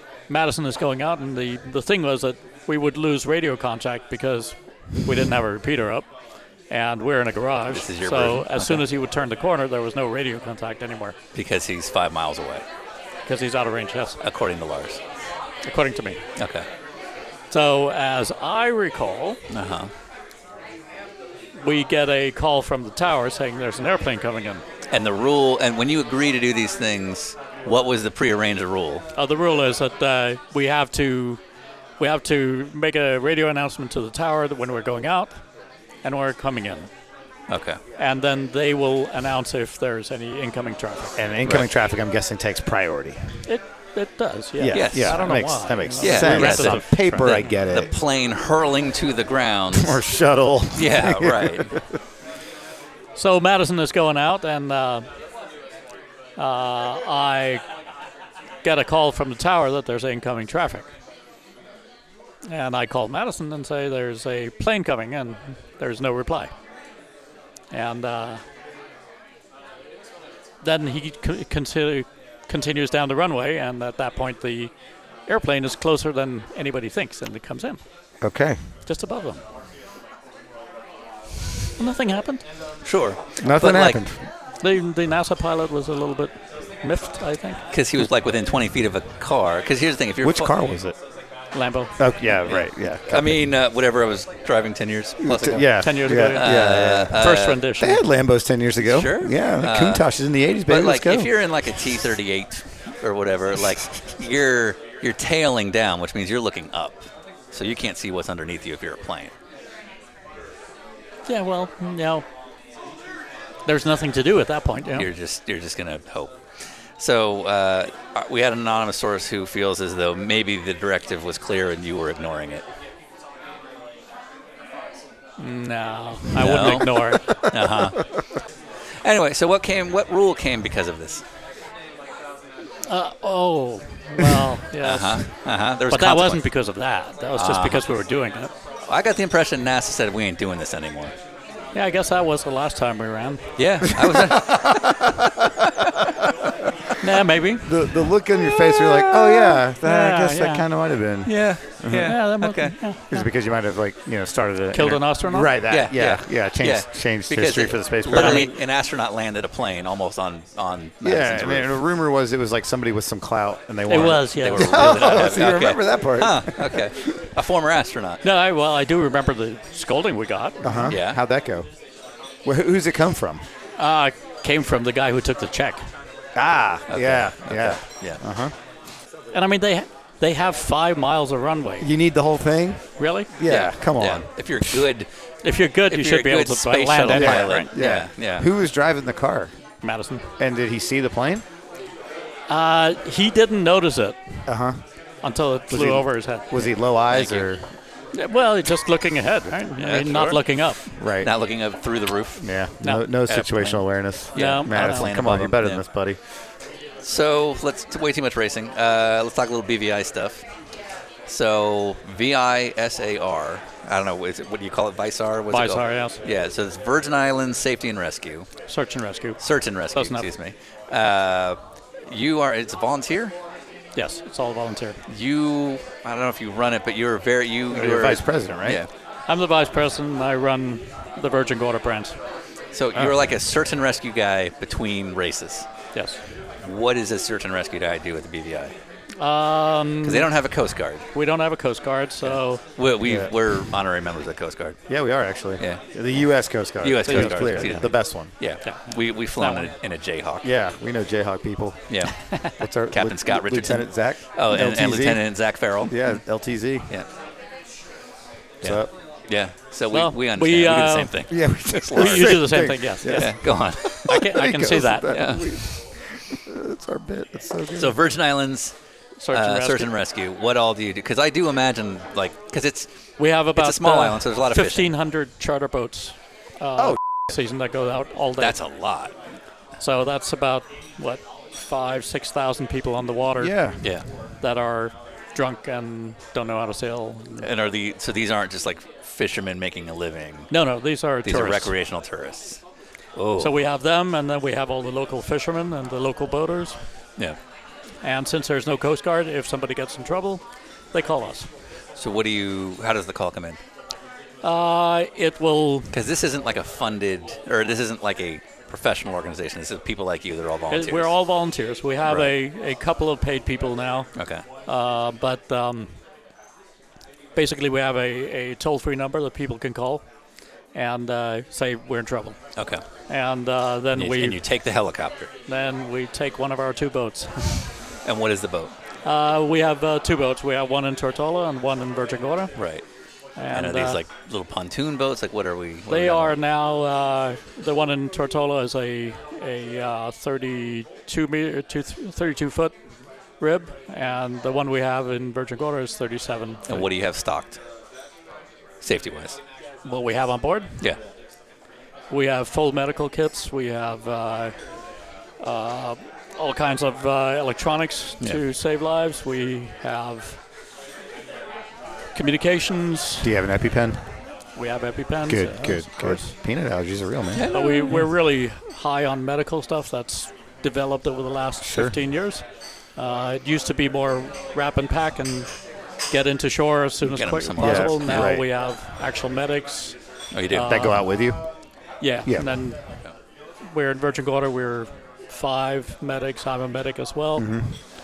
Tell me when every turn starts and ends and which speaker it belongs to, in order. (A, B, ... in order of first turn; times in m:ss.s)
0:00.3-0:06.1 A
0:06.7-0:11.2 A
0:07.7-0:08.8 B
0:11.4-0:12.6 B
0:13.3-0:14.2 A
0:14.2-0:15.0 B
0:15.6-0:16.2 A
0:16.4-0:16.6 B
0:17.5-0:19.4 A
0:19.5-0:19.9 B
0:21.6-0:24.6 A
0:24.9-0:29.1 B
0:29.2-0:31.4 A
0:32.0-0:35.3 A
0:36.0-0:36.9 A
0:37.5-0:37.8 B
0:38.0-0:41.2 A
0:41.2-0:43.4 C
0:43.4-0:47.4 A
0:44.6-0:47.9 C
0:44.7-0:45.2 B
0:46.0-0:50.0 B
0:49.7-0:51.8 C
0:50.7-0:51.7 B
0:53.2-0:55.1 A
0:56.4-0:57.6 A
0:58.6-1:00.9 A
1:02.5-1:06.5 A
1:07.7-1:08.4 A
1:10.6-1:14.7 A
1:15.3-1:17.8 A
1:18.2-1:18.6 C
1:18.9-1:19.4 A
1:21.8-1:22.4 A
1:22.8-1:24.0 B
1:23.4-1:24.3 C
1:24.6-1:26.3 A
1:26.8-1:27.6 A
1:27.7-1:30.5 B
1:30.2-1:31.0 C
1:31.5-1:31.9 A
1:32.0-1:33.4 C
1:32.5-1:37.6 B
1:35.2-1:37.2 C
1:35.8-1:38.0 A
1:37.8-1:41.3 C
1:38.8-1:40.0 B
1:40.7-1:49.3 B
1:51.3-1:52.2 A
1:53.6-1:55.1 A
1:54.9-1:56.4 B
1:57.0-2:02.6 B
2:05.4-2:07.4 A
2:06.4-2:08.0 B
2:09.0-2:11.2 B
2:12.8-2:15.3 A
2:14.8-2:16.4 B
2:15.9-2:18.5 A
2:17.4-2:17.8 B
2:18.8-2:21.1 B
2:21.7-2:23.5 A
2:23.6-2:24.9 B
2:24.1-2:25.2 C
2:27.0-2:27.9 A
2:27.6-2:32.2 C
2:29.1-2:30.7 A
2:31.2-2:32.8 B
2:32.0-2:33.2 A
2:33.1-2:38.5 C
2:34.7-2:35.6 A
2:35.7-2:41.8 B
2:38.1-2:38.5 A
2:41.0-2:47.1 C
2:43.9-2:45.2 A
2:44.3-2:48.2 B
2:48.2-2:50.9 A
2:50.6-2:51.7 C
2:50.8-2:51.2 B
2:52.4-2:53.4 C
2:53.8-2:55.8 A
2:56.4-2:58.5 C
2:56.9-2:58.2 B
2:59.3-3:01.9 A
3:01.8-3:04.8 C
3:03.0-3:03.3 A
3:03.4-3:05.1 B
3:05.4-3:07.7 A
3:05.9-3:08.5 B
3:07.1-3:09.5 C
3:09.8-3:10.2 A
3:10.4-3:11.4 C
3:12.5-3:14.4 A
3:14.5-3:14.8 C
3:15.2-3:16.6 A
3:15.7-3:17.6 C
3:17.1-3:17.5 B
3:18.1-3:20.9 A
3:19.8-3:20.4 B
3:21.0-3:21.3 C
3:21.2-3:22.5 B
3:22.4-3:26.2 C
3:22.8-3:23.1 A
3:23.3-3:25.8 B
3:24.4-3:25.2 A
3:27.0-3:30.5 B
3:31.3-3:38.5 B
3:35.5-3:36.2 A
3:38.7-3:39.4 A
3:39.4-3:43.4 B
3:39.9-3:40.3 A
3:44.0-3:45.0 A
3:45.1-3:48.9 B
3:47.7-3:48.8 C
3:49.3-3:52.2 A
3:52.7-3:55.7 B
3:55.9-3:56.2 A
3:56.6-3:58.7 B
3:59.2-4:00.3 A
4:00.0-4:01.1 B
4:01.1-4:02.6 A
4:02.2-4:04.8 B
4:03.0-4:03.4 C
4:04.9-4:08.3 C
4:06.8-4:10.5 B
4:07.0-4:07.9 A
4:08.6-4:09.7 A
4:10.4-4:12.0 C
4:11.9-4:12.3 B
4:12.6-4:16.9 C
4:12.9-4:16.2 B
4:18.6-4:24.2 B
4:18.6-4:18.9 C
4:19.9-4:21.4 A
4:21.3-4:23.4 C
4:21.9-4:23.4 A
4:24.0-4:25.3 A
4:24.1-4:28.0 C
4:25.1-4:25.6 B
4:27.8-4:28.7 B
4:29.2-4:29.9 A
4:29.3-4:32.9 B
4:33.2-4:38.6 A
4:33.5-4:34.9 B
4:38.4-4:39.1 B
4:39.8-4:47.5 A
4:43.4-4:43.9 C
4:47.4-4:50.5 B
4:50.5-4:51.7 A
4:51.2-4:52.6 B
4:53.2-4:53.6 B
4:53.4-4:56.8 A
4:58.0-5:00.4 A
5:00.9-5:01.5 A
5:02.0-5:03.6 B
5:04.4-5:05.9 A
5:05.9-5:11.1 B
5:10.7-5:14.2 A
5:12.0-5:12.3 B
5:14.2-5:14.4 B
5:14.6-5:15.9 A
5:17.4-5:20.0 A
5:20.7-5:22.4 A
5:22.6-5:22.8 B
5:23.1-5:24.4 A
5:24.0-5:25.3 B
5:25.5-5:27.7 A
5:28.0-5:28.7 B
5:29.0-5:32.6 A
5:32.6-5:32.8 B
5:33.4-5:34.0 A
5:33.5-5:36.3 B
5:35.9-5:42.7 A
5:43.4-5:46.9 A
5:46.7-5:47.6 B
5:48.8-5:49.4 B
5:49.8-5:50.8 A
5:52.1-5:54.6 A
5:55.4-6:00.4 A
6:02.2-6:03.3 A
6:03.2-6:04.0 C
6:04.6-6:06.3 A
6:05.3-6:07.5 C
6:07.3-6:08.0 B
6:07.5-6:12.4 A
6:11.6-6:11.9 C
6:13.0-6:15.5 A
6:16.1-6:20.0 A
6:17.0-6:18.3 B
6:17.6-6:18.5 C
6:20.3-6:20.8 B
6:20.5-6:21.1 A
6:20.7-6:21.4 C
6:22.0-6:22.9 A
6:22.2-6:22.6 C
6:23.7-6:27.6 A
6:27.4-6:27.7 C